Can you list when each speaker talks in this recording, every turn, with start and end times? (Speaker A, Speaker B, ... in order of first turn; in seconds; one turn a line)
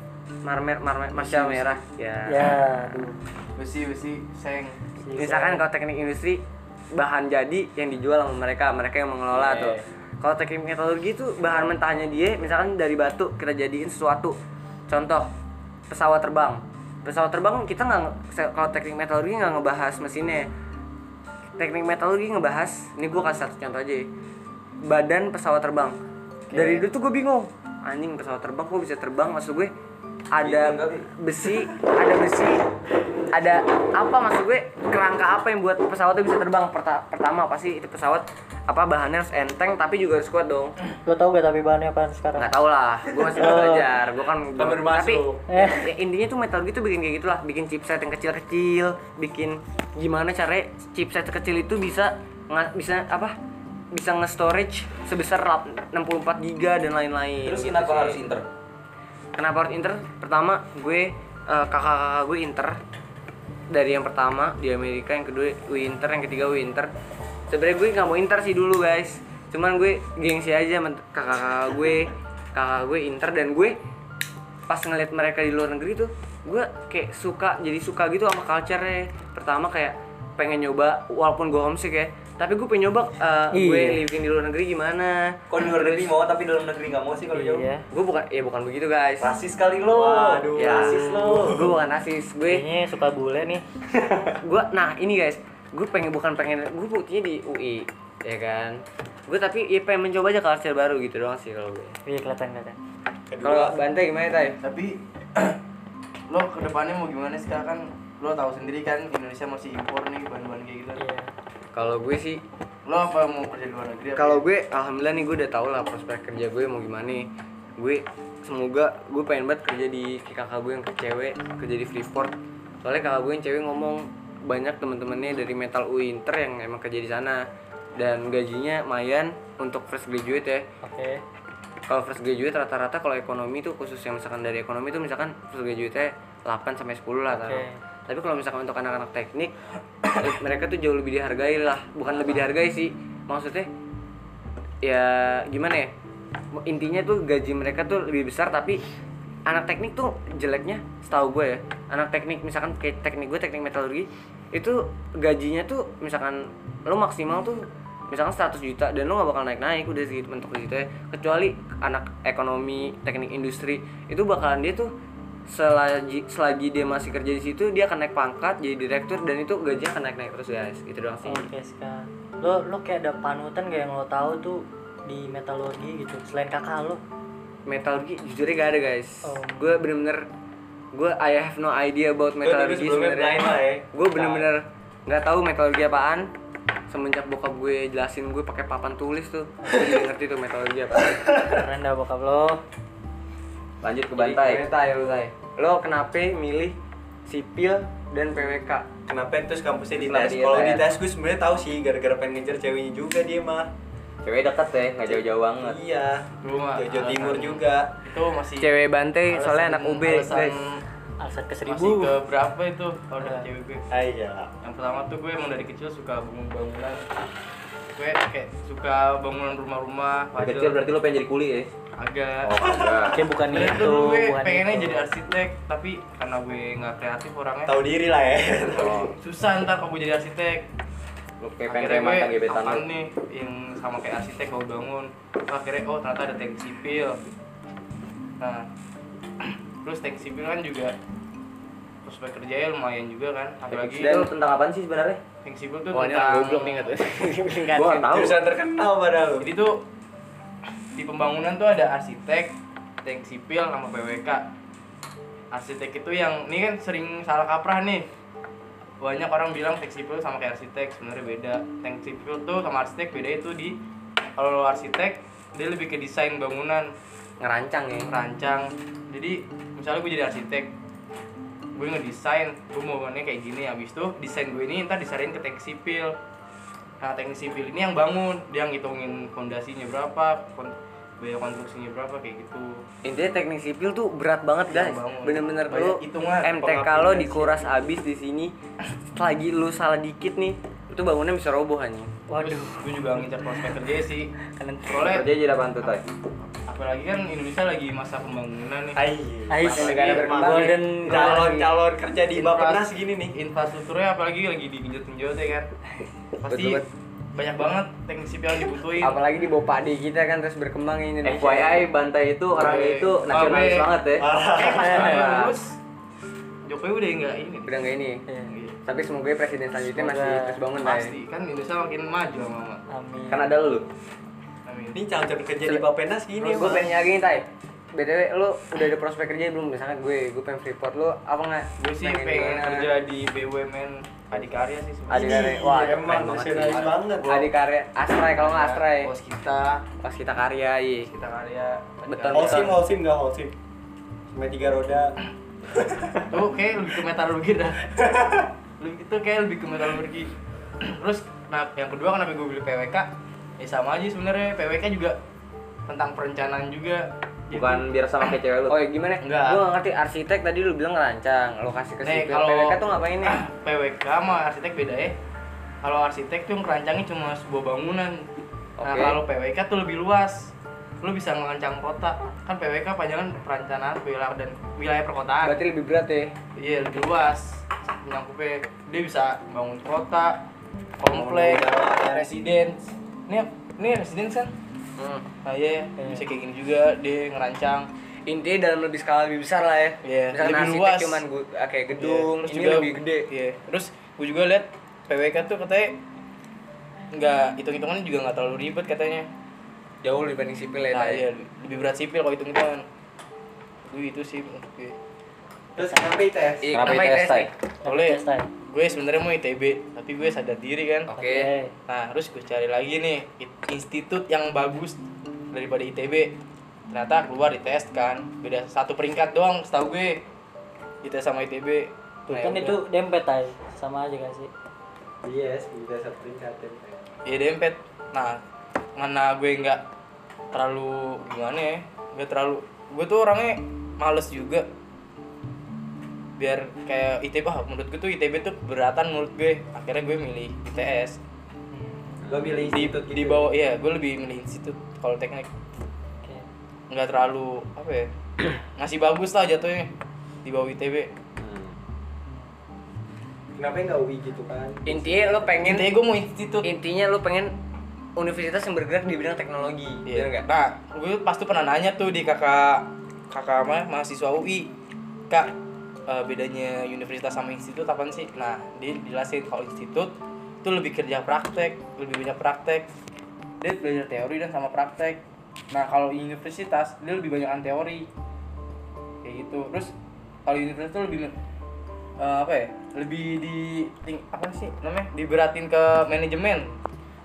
Speaker A: 0.4-2.5
Speaker B: 2.2-3.2
Speaker C: 3.6-4.8
Speaker B: 5.0-5.6
Speaker A: 5.1-6.4
Speaker A: 6.9-14.3
Speaker D: 9.3-9.7
Speaker A: 14.9-15.3
Speaker A: 15.9-20.5
Speaker A: 21.6-24.1
Speaker A: 24.8-26.0
Speaker A: 26.5-29.7
Speaker A: 30.3-32.6
Speaker D: 30.4-31.1
Speaker A: 33.3-40.8
Speaker B: 41.0-42.5
Speaker A: 42.4-53.3
Speaker B: 43.3-43.9
Speaker E: 44.6-45.5
Speaker B: 45.5-45.9
Speaker A: 53.9-58.2
Speaker D: 57.4-58.4
Speaker A: 59.4-62.8
Speaker A: 63.7-66.9
Speaker A: 67.5-73.8
Speaker A: 74.7-86.1
Speaker B: 83.5-84.0
Speaker D: 85.5-87.7
Speaker B: 87.3-87.8
Speaker A: 87.9-89.3
Speaker D: 89.2-91.0
Speaker E: 89.9-91.8
Speaker A: 90.5-92.6
Speaker B: 92.5-93.6
Speaker A: 94.4-102.0
Speaker B: 102.0-102.8
Speaker E: 103.3-103.7
Speaker A: 103.4-104.6
Speaker C: 104.6-105.6
Speaker C: 106.3-111.0
Speaker B: 111.0-111.3
Speaker A: 111.7-112.4
Speaker C: 112.8-114.4
Speaker A: 114.2-117.3
Speaker A: 117.8-127.4
Speaker A: 128.0-130.7
Speaker B: 130.8-131.2
Speaker A: 131.9-139.5
Speaker B: 137.3-137.8
Speaker A: 140.1-143.7
Speaker A: 144.8-145.9
Speaker A: 146.5-148.8
Speaker A: 149.4-164.9
Speaker A: 165.5-171.4
Speaker B: 171.2-177.0
Speaker A: 177.7-180.2
Speaker B: 179.2-179.8
Speaker A: 180.9-186.3
Speaker E: 182.4-184.4
Speaker A: 186.9-191.3
Speaker E: 191.1-191.6
Speaker B: 191.3-192.6
Speaker D: 193.8-194.6
Speaker A: 194.1-198.9
Speaker E: 199.1-203.7
Speaker D: 199.9-200.9
Speaker D: 204.2-205.8
Speaker E: 205.1-207.9
Speaker C: 206.4-208.7
Speaker A: 208.6-210.6
Speaker C: 209.3-210.8
Speaker B: 211.2-212.2
Speaker C: 211.7-213.8
Speaker B: 213.2-213.4
Speaker E: 213.9-214.5
Speaker C: 214.6-217.0
Speaker C: 217.9-220.8
Speaker D: 220.3-221.7
Speaker C: 222.0-222.6
Speaker D: 222.4-223.2
Speaker E: 222.6-223.0
Speaker B: 223.1-225.1
Speaker C: 223.4-227.8
Speaker E: 227.7-229.1
Speaker D: 228.7-229.1
Speaker C: 228.8-230.7
Speaker D: 231.4-232.8
Speaker C: 231.7-237.2
Speaker C: 238.4-238.7
Speaker C: 239.4-240.9
Speaker C: 242.0-244.3
Speaker D: 243.7-245.2
Speaker C: 245.4-246.9
Speaker A: 245.9-248.3
Speaker D: 247.7-248.4
Speaker E: 248.1-249.5
Speaker C: 249.4-249.8
Speaker C: 250.9-254.4
Speaker C: 255.5-258.1
Speaker C: 259.0-263.8
Speaker C: 264.4-266.9
Speaker A: 267.4-268.2
Speaker C: 268.0-270.7
Speaker C: 271.7-276.1
Speaker C: 277.0-282.8
Speaker A: 283.0-288.5
Speaker C: 284.7-286.6
Speaker E: 286.6-287.7
Speaker A: 289.1-292.1
Speaker B: 292.3-292.8
Speaker C: 292.4-294.3
Speaker B: 294.6-295.0
Speaker C: 294.9-295.3
Speaker D: 295.0-296.0
Speaker C: 296.5-299.0
Speaker E: 298.9-303.3
Speaker B: 299.5-301.4
Speaker A: 299.6-301.7
Speaker C: 299.8-300.3
Speaker C: 302.3-305.7
Speaker C: 306.4-309.2
Speaker A: 306.4-306.8
Speaker A: 309.0-311.9
Speaker D: 311.2-314.3
Speaker C: 312.5-315.8
Speaker E: 314.2-315.3
Speaker D: 314.9-315.5
Speaker C: 316.6-317.9
Speaker A: 317.6-318.2
Speaker C: 318.5-318.8
Speaker A: 318.9-321.1
Speaker B: 319.8-320.6
Speaker C: 320.8-322.8
Speaker B: 322.9-323.6
Speaker D: 323.3-323.9
Speaker C: 324.6-325.0
Speaker E: 324.9-326.9
Speaker A: 326.4-332.9
Speaker C: 331.8-335.3
Speaker E: 335.1-337.5
Speaker A: 335.1-339.1
Speaker C: 338.3-339.8
Speaker A: 340.0-341.1
Speaker C: 341.0-342.8
Speaker A: 342.1-342.8
Speaker E: 342.3-343.5
Speaker E: 344.3-345.1
Speaker E: 345.8-346.1
Speaker C: 346.3-348.2
Speaker C: 348.8-355.2
Speaker C: 355.9-357.8
Speaker D: 357.5-358.8
Speaker A: 358.7-363.4
Speaker C: 359.2-359.6
Speaker C: 362.0-365.1
Speaker C: 365.8-368.3
Speaker A: 368.8-369.2
Speaker C: 368.8-375.6
Speaker A: 375.4-376.3
Speaker C: 376.6-380.4
Speaker C: 381.0-384.5
Speaker E: 381.1-382.4
Speaker A: 385.0-385.3
Speaker C: 385.4-387.9
Speaker B: 386.0-386.2
Speaker A: 388.2-393.3
Speaker C: 390.0-391.2
Speaker C: 391.9-396.0
Speaker C: 397.1-399.3
Speaker A: 400.0-401.2
Speaker C: 400.9-402.8
Speaker C: 403.9-404.9
Speaker E: 405.8-406.8
Speaker B: 405.8-406.2
Speaker A: 406.6-407.5
Speaker D: 406.7-407.5
Speaker B: 407.8-408.5
Speaker C: 407.8-411.1
Speaker A: 411.1-411.5
Speaker B: 411.2-411.7
Speaker C: 411.9-416.3
Speaker C: 416.9-420.2
Speaker C: 421.0-422.8
Speaker B: 422.3-424.5
Speaker E: 425.2-427.0
Speaker C: 427.2-428.4
Speaker C: 428.9-429.8
Speaker C: 430.5-434.7
Speaker C: 436.4-441.2
Speaker B: 441.7-442.2
Speaker D: 442.3-442.6
Speaker E: 442.3-443.5
Speaker C: 442.7-445.5
Speaker C: 446.9-449.9
Speaker C: 450.4-451.1
Speaker D: 451.4-451.7
Speaker E: 453.6-455.5
Speaker A: 454.9-455.9
Speaker C: 455.6-456.7
Speaker A: 456.6-457.5
Speaker A: 458.1-460.4
Speaker C: 460.1-464.7
Speaker C: 466.1-472.9
Speaker C: 473.6-475.2
Speaker C: 475.7-478.1
Speaker C: 479.2-479.9
Speaker C: 480.4-481.3
Speaker C: 482.2-486.8